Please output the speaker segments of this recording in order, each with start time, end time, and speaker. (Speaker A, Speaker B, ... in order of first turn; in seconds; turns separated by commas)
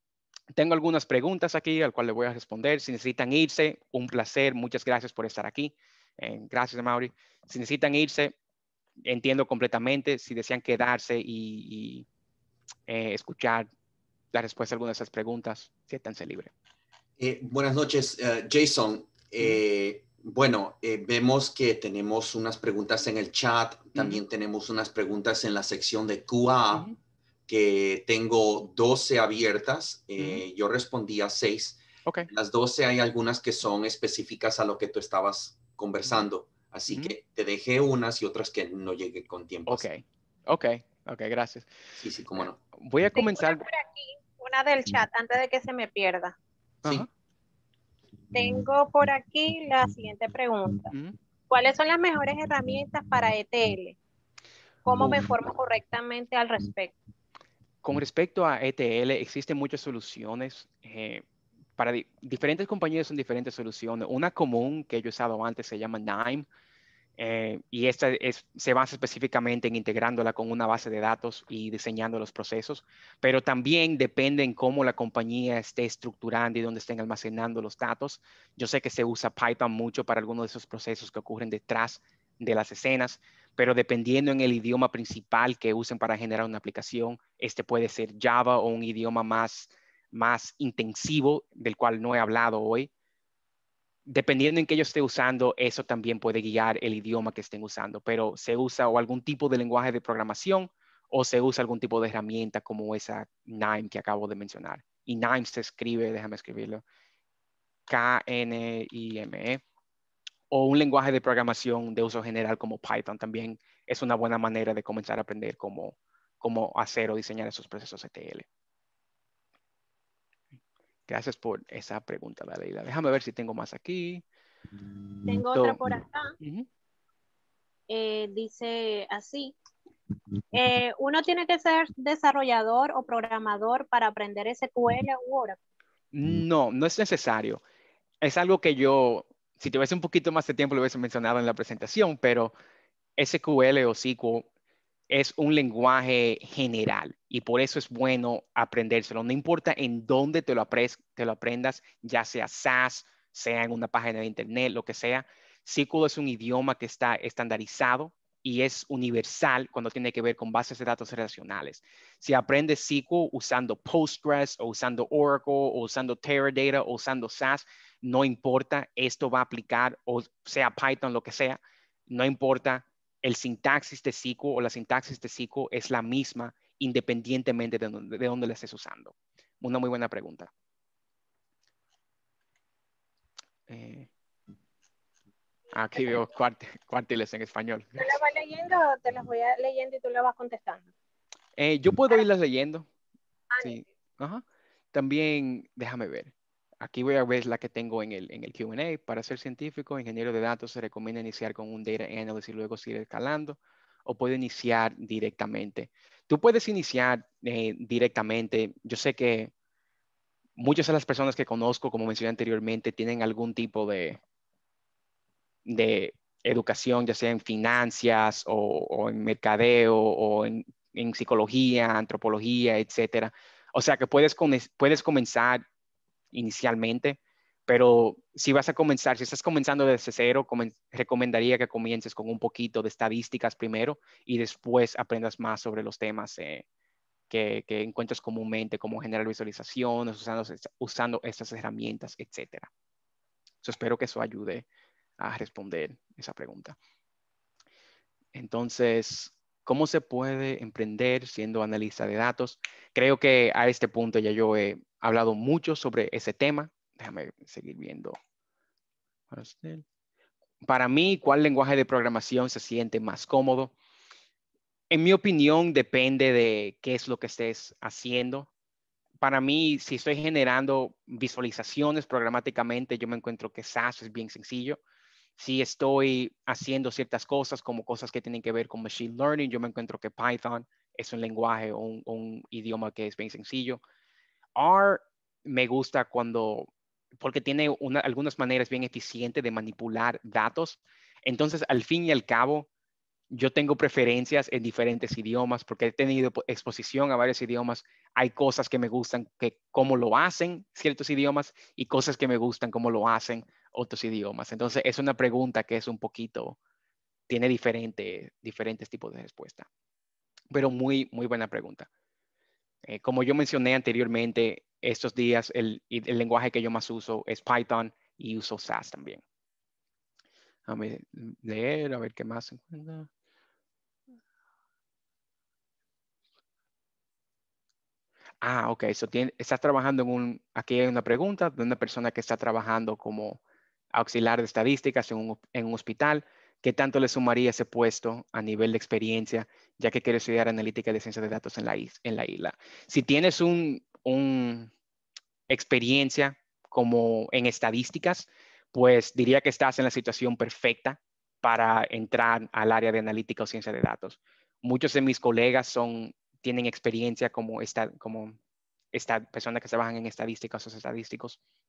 Speaker A: 0.6-8.3, Speaker A: 9.1-12.1, Speaker A: 12.9-13.7, Speaker A: 14.3-16.5, Speaker B: 17.2-26.9, Speaker A: 23.9-24.2, Speaker B: 27.5-39.9, Speaker A: 30.2-30.4, Speaker A: 36.9-37.2, Speaker A: 39.7-41.7, Speaker B: 42.0-42.6, Speaker A: 42.7-43.7, Speaker C: 43.2-46.4, Speaker A: 46.8-47.1, Speaker C: 48.3-50.9, Speaker A: 50.9-51.2, Speaker C: 51.5-54.0, Speaker C: 54.9-57.0, Speaker A: 57.8-61.2, Speaker A: 61.8-66.5, Speaker A: 67.2-92.9, Speaker A: 94.1-106.8, Speaker A: 107.9-109.6, Speaker A: 110.5-118.5, Speaker A: 121.1-124.2, Speaker C: 125.3-126.3, Speaker A: 125.5-125.8, Speaker A: 126.4-126.7, Speaker C: 127.9-129.5, Speaker C: 130.5-135.6, Speaker A: 136.1-137.6, Speaker A: 138.2-142.6, Speaker A: 143.2-144.5, Speaker A: 145.1-180.5, Speaker A: 183.7-184.1, Speaker A: 185.7-188.1, Speaker C: 185.9-186.2, Speaker C: 188.0-190.8, Speaker A: 191.6-192.9, Speaker A: 193.6-209.5, Speaker A: 210.6-214.2, Speaker A: 215.7-225.6, Speaker A: 226.3-236.6, Speaker A: 237.3-242.7, Speaker A: 243.6-244.7, Speaker A: 245.2-246.8, Speaker A: 248.3-258.2, Speaker A: 259.3-259.9, Speaker A: 260.6-263.7, Speaker A: 264.9-268.5, Speaker A: 269.2-274.8, Speaker A: 275.4-283.8, Speaker A: 284.6-292.7, Speaker A: 293.3-306.6, Speaker A: 307.3-309.7, Speaker A: 310.5-311.9, Speaker A: 312.8-319.2, Speaker A: 320.7-323.1, Speaker A: 328.4-333.4, Speaker A: 333.9-344.7, Speaker A: 345.5-358.4, Speaker A: 358.9-361.4